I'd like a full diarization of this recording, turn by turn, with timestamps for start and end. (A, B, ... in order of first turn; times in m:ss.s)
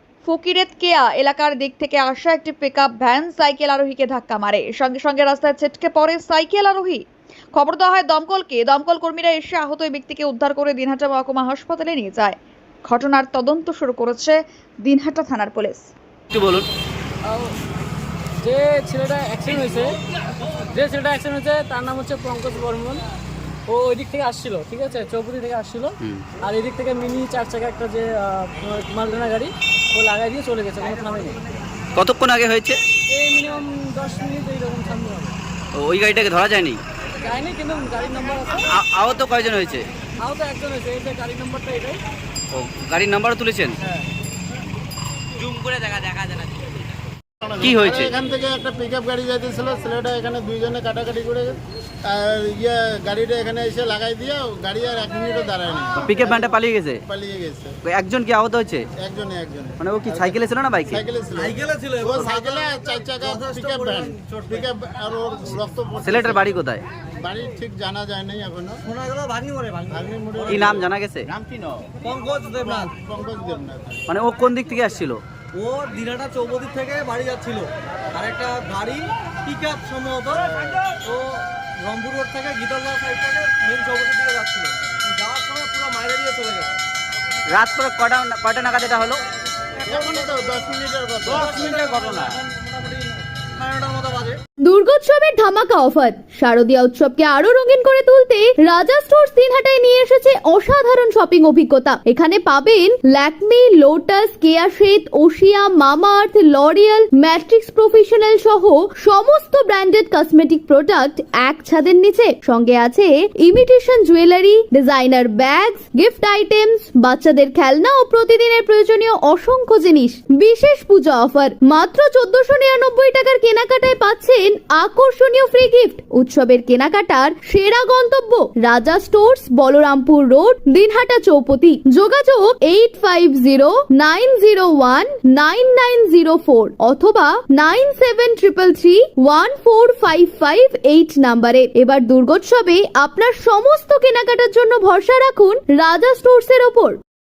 0:00.2-0:15.9 A
0:16.3-0:16.6 B
0:17.3-0:17.5 C
0:18.4-0:20.0 C
0:20.7-0:23.0 C
0:23.7-0:31.4 C
0:31.9-0:32.8 B
0:33.1-0:35.3 C
0:35.7-0:36.8 B
0:37.2-0:38.7 C
0:38.7-0:39.8 B
0:40.2-0:42.0 C
0:42.5-0:43.8 B
0:45.4-0:46.6 B
0:47.4-0:56.5 D
0:47.6-0:48.2 B
0:56.0-0:57.0 B
0:57.0-0:57.8 D
0:57.8-0:58.8 B
0:59.0-1:00.3 D
0:59.8-1:01.0 B
1:00.9-1:06.5 D
1:01.4-1:04.6 E
1:06.0-1:06.8 B
1:07.2-1:08.8 D
1:08.8-1:10.8 E
1:09.9-1:10.8 D
1:10.5-1:11.3 B
1:12.0-1:12.9 E
1:12.6-1:14.0 D
1:14.1-1:15.2 B
1:15.5-1:26.7 E
1:27.5-1:29.2 B
1:29.8-1:31.7 D
1:31.3-1:34.4 E
1:31.5-1:32.3 B
1:34.6-2:27.0 F